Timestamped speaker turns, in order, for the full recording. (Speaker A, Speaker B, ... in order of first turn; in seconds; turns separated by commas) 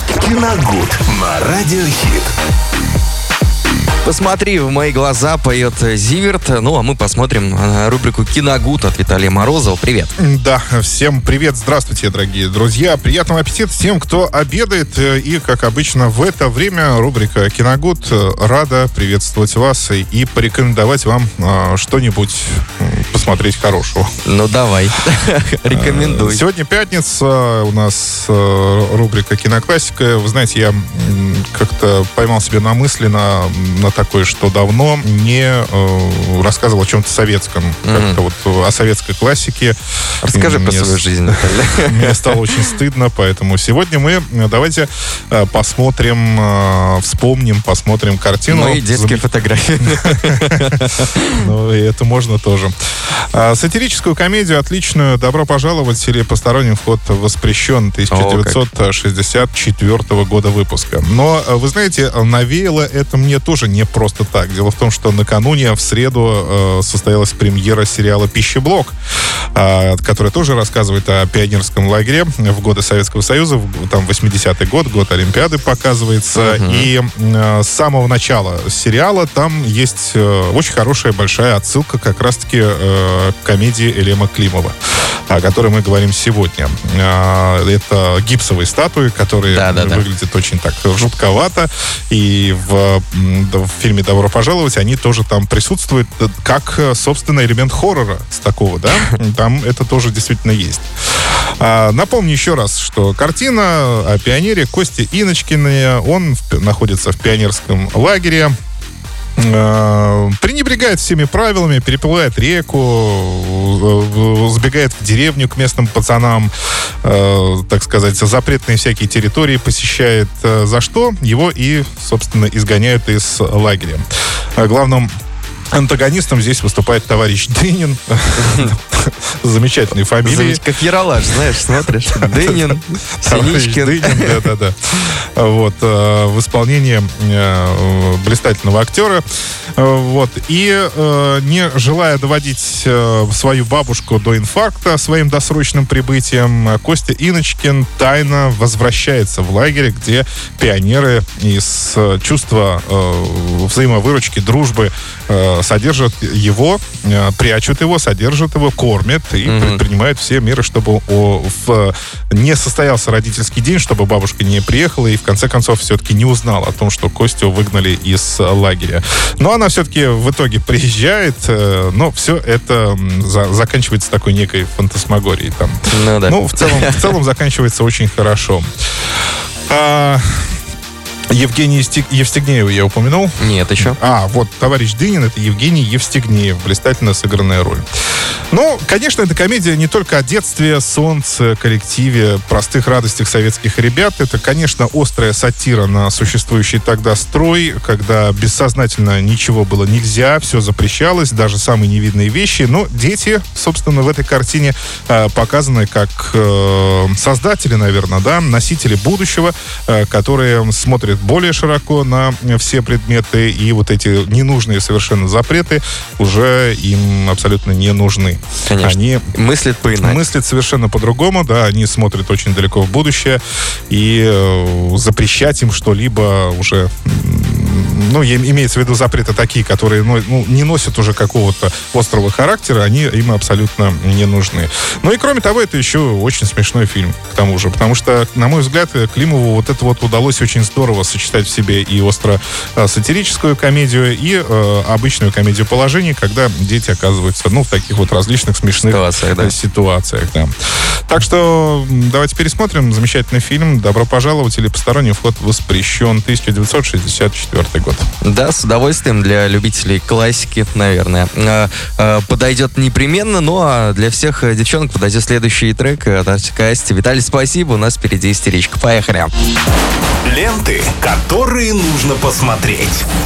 Speaker A: 0.2-2.3, Speaker B: 4.0-10.1, Speaker C: 10.2-24.1, Speaker B: 24.2-26.4, Speaker C: 25.7-39.8, Speaker B: 37.9-38.2, Speaker B: 40.2-42.7, Speaker C: 40.3-49.2, Speaker B: 48.5-51.5, Speaker C: 51.4-52.7, Speaker C: 53.3-68.9, Speaker B: 58.1-58.6, Speaker C: 69.5-84.7, Speaker B: 76.3-76.9, Speaker C: 85.3-100.8, Speaker B: 89.5-90.0, Speaker C: 101.6-108.5, Speaker C: 109.4-116.5, Speaker C: 117.0-124.0, Speaker C: 124.6-125.1, Speaker C: 125.7-130.6, Speaker B: 128.4-128.7, Speaker B: 130.2-134.5, Speaker C: 131.3-139.2, Speaker C: 139.8-178.7, Speaker B: 159.4-159.8, Speaker B: 175.9-177.1, Speaker C: 179.7-180.5, Speaker C: 181.3-187.8, Speaker B: 183.4-184.0, Speaker C: 188.5-219.3, Speaker B: 218.7-220.2, Speaker C: 219.9-250.5, Speaker B: 248.8-249.5, Speaker C: 251.1-258.1, Speaker B: 258.2-269.3, Speaker A: 270.2-273.0